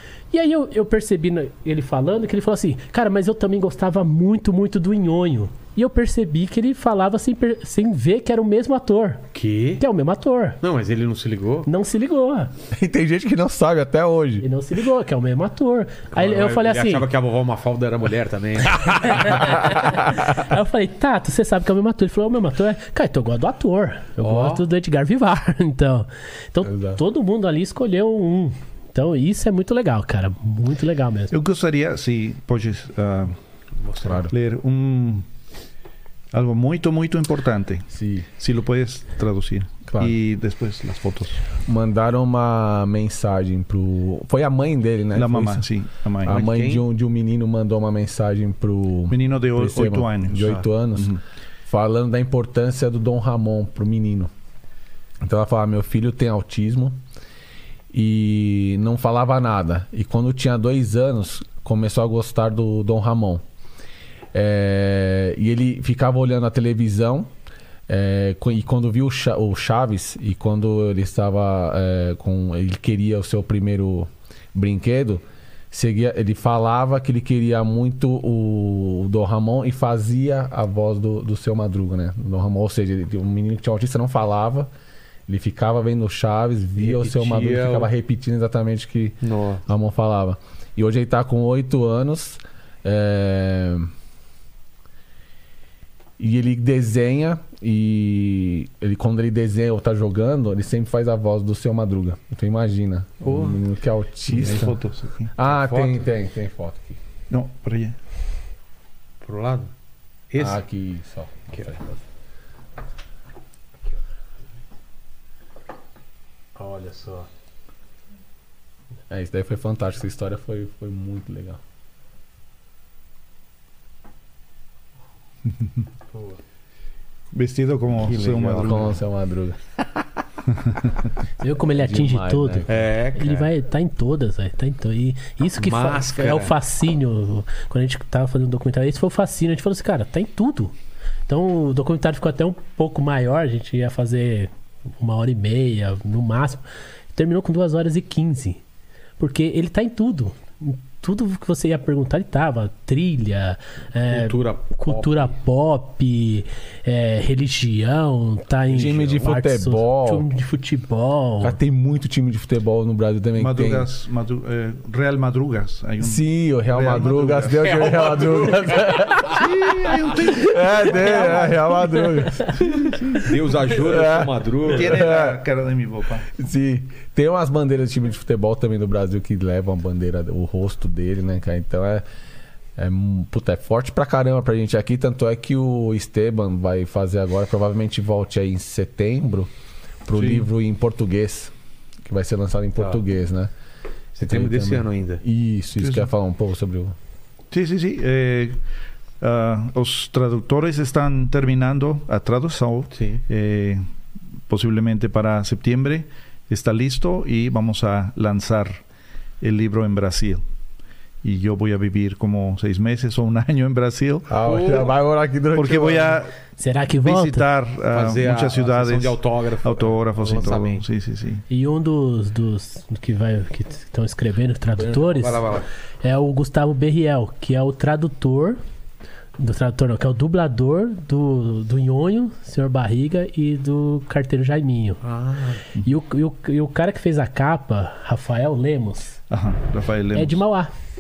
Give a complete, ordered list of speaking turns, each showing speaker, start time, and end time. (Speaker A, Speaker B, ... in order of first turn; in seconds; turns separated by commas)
Speaker A: 0.3-9.2, Speaker B: 9.3-9.8, Speaker A: 9.8-10.6, Speaker B: 10.6-11.7, Speaker A: 11.7-12.5, Speaker C: 12.7-14.4, Speaker A: 14.4-17.0, Speaker B: 16.1-19.4, Speaker A: 18.9-31.3, Speaker B: 24.2-24.6, Speaker C: 26.6-27.0, Speaker D: 31.3-33.3, Speaker B: 33.8-34.2, Speaker C: 34.0-34.3, Speaker D: 34.3-35.2, Speaker D: 36.3-41.4, Speaker C: 37.9-38.3, Speaker C: 39.9-40.1, Speaker C: 41.7-45.6, Speaker D: 45.1-46.4, Speaker C: 46.2-54.3, Speaker B: 46.3-46.8, Speaker D: 49.1-51.2, Speaker C: 55.2-57.0, Speaker C: 57.9-63.4, Speaker C: 64.3-67.3, Speaker C: 67.9-84.7, Speaker C: 85.3-93.9, Speaker B: 86.8-87.9, Speaker B: 89.2-89.6, Speaker C: 96.2-104.8, Speaker B: 103.2-103.6, Speaker D: 104.3-105.3, Speaker C: 105.3-107.0, Speaker B: 105.4-106.0, Speaker D: 107.3-107.9, Speaker B: 109.2-109.7, Speaker B: 110.3-110.6, Speaker C: 110.4-112.0, Speaker B: 116.5-117.3, Speaker C: 119.1-121.6, Speaker D: 127.3-128.9, Speaker B: 128.0-128.8, Speaker C: 128.5-129.6, Speaker A: 131.4-140.7, Speaker C: 131.7-132.7, Speaker B: 132.7-133.5, Speaker B: 135.6-136.5, Speaker A: 141.3-146.6, Speaker A: 147.1-148.6, Speaker A: 149.2-161.6, Speaker B: 154.1-155.3, Speaker C: 158.7-160.2, Speaker C: 161.4-163.9, Speaker D: 163.4-166.2, Speaker C: 166.0-173.2, Speaker B: 166.7-169.1, Speaker D: 166.8-167.4, Speaker D: 169.3-171.4, Speaker B: 173.2-175.1, Speaker C: 173.7-175.4, Speaker D: 174.7-176.2, Speaker C: 176.4-182.0, Speaker C: 182.8-189.5, Speaker C: 190.1-191.5, Speaker B: 190.2-190.4, Speaker C: 192.1-193.5, Speaker B: 194.2-195.2, Speaker C: 194.2-196.9, Speaker D: 195.8-196.1, Speaker D: 197.5-198.6, Speaker D: 199.2-203.8, Speaker B: 202.9-203.2, Speaker D: 204.5-208.8, Speaker D: 209.4-210.4, Speaker D: 211.2-214.3, Speaker C: 214.3-216.2, Speaker B: 214.4-214.9, Speaker D: 215.5-216.3, Speaker A: 216.6-217.5, Speaker D: 217.0-221.4, Speaker B: 217.9-220.8, Speaker A: 221.5-225.4, Speaker B: 225.0-225.7, Speaker A: 226.0-228.6, Speaker A: 229.4-235.0, Speaker B: 235.0-235.6, Speaker A: 235.8-239.2, Speaker D: 239.3-240.4, Speaker A: 240.1-240.7